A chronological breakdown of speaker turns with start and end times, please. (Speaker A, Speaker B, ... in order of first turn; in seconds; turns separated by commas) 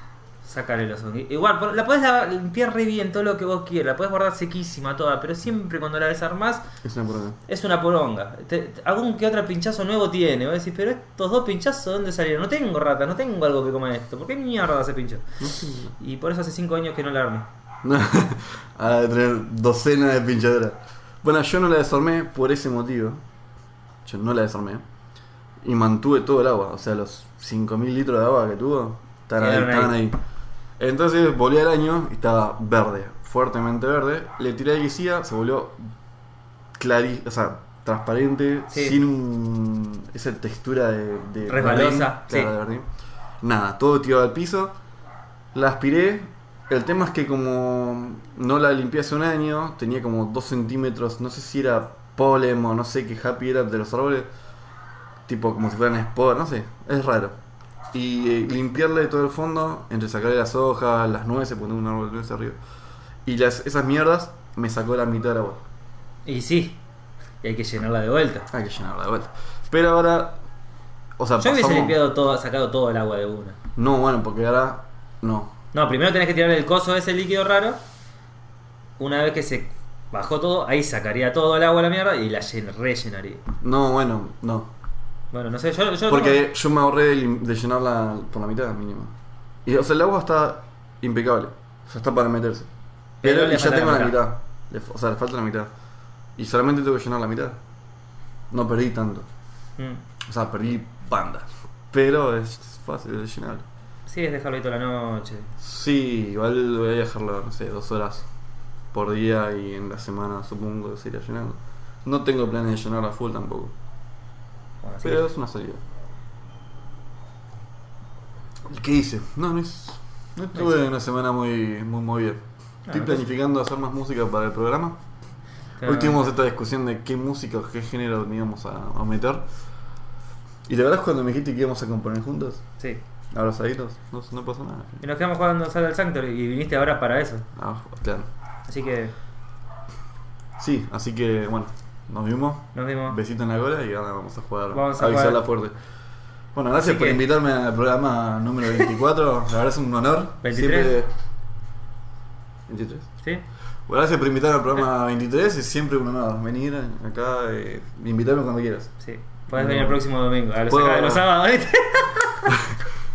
Speaker A: 0.4-6.7, Speaker B: 6.8-7.4, Speaker A: 7.5-15.3, Speaker B: 15.4-15.9, Speaker A: 16.0-17.5, Speaker B: 17.8-23.2, Speaker B: 24.1-24.8, Speaker B: 25.6-30.2, Speaker A: 29.4-30.0, Speaker B: 30.8-35.8, Speaker B: 36.8-42.9, Speaker A: 38.7-39.0, Speaker A: 41.5-42.5, Speaker B: 43.4-44.8, Speaker B: 45.5-54.3, Speaker B: 55.3-57.3, Speaker B: 57.9-62.6, Speaker B: 63.2-65.6, Speaker A: 66.3-66.8, Speaker A: 67.4-68.5, Speaker B: 68.5-70.4, Speaker B: 71.2-72.0, Speaker A: 71.4-73.6, Speaker B: 73.8-75.5, Speaker A: 75.7-77.8, Speaker A: 79.0-83.4, Speaker B: 83.6-84.7, Speaker A: 85.3-86.4, Speaker B: 86.1-89.1, Speaker B: 89.7-92.7, Speaker B: 93.2-95.7, Speaker A: 93.2-94.2, Speaker B: 96.4-97.6, Speaker B: 98.5-99.3, Speaker A: 99.8-100.0, Speaker B: 100.3-103.7, Speaker A: 104.1-105.5, Speaker B: 105.6-108.3, Speaker B: 108.9-113.7, Speaker A: 114.8-115.2, Speaker B: 115.0-115.8, Speaker B: 118.7-125.0, Speaker A: 122.9-123.2, Speaker A: 125.8-126.2, Speaker B: 125.8-129.5, Speaker B: 130.7-132.6, Speaker B: 133.3-135.0, Speaker A: 135.0-137.5, Speaker B: 137.6-138.3, Speaker A: 138.7-139.2, Speaker B: 140.6-145.7, Speaker A: 142.8-143.2, Speaker A: 144.7-145.4, Speaker B: 146.5-151.1, Speaker A: 146.8-147.2, Speaker A: 150.4-150.9, Speaker B: 152.7-153.1, Speaker B: 153.9-159.0, Speaker A: 159.0-162.5, Speaker B: 159.5-160.0, Speaker B: 160.7-161.3, Speaker B: 162.5-162.8